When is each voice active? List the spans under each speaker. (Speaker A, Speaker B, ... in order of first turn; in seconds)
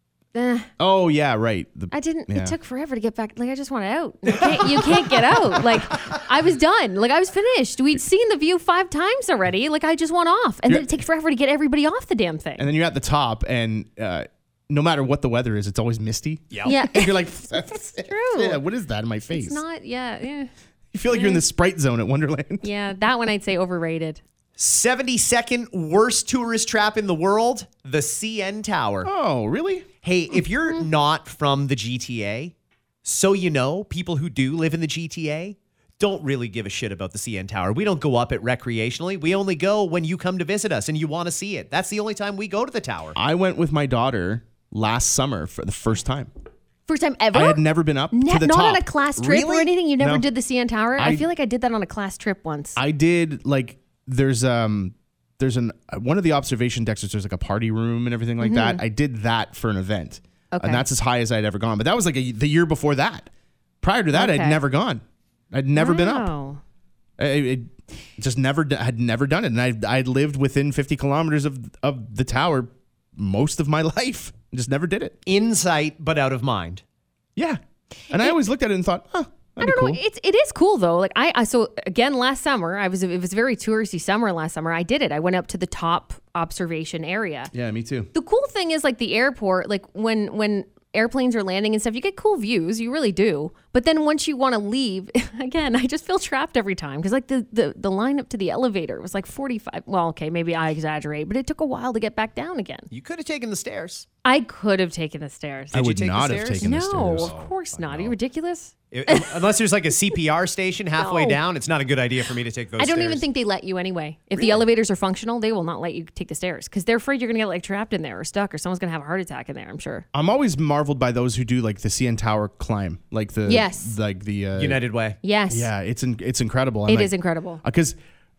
Speaker A: 0.3-0.7, 1.9-12.7, 16.6-17.1, 17.7-18.6, 19.3-20.5, 21.1-21.4, 22.6-24.2, 46.9-52.8, 58.4-58.8, 60.5-60.8, 64.1-64.6, 65.8-66.6, 79.6-87.5, 88.1-102.9, 104.2-105.8, 106.5-109.3, 111.0-111.4, 112.8-120.0, 123.5-124.0, 125.2-125.7, 126.9-127.6
Speaker B: 0.8-2.6, 10.7-11.0, 12.6-19.6, 20.9-22.7, 29.0-29.9, 43.2-46.3, 47.3-50.3, 51.0-51.3, 52.8-63.3, 63.8-66.3, 67.2-75.2, 77.4-80.0, 87.5-88.1, 105.7-107.3, 120.1-124.8, 125.5-128.0
Speaker C: 16.5-16.8, 24.6-29.1, 30.0-43.2, 75.3-76.8, 102.9-104.1, 105.7-108.1, 108.9-113.2, 114.4-114.6, 124.6-125.2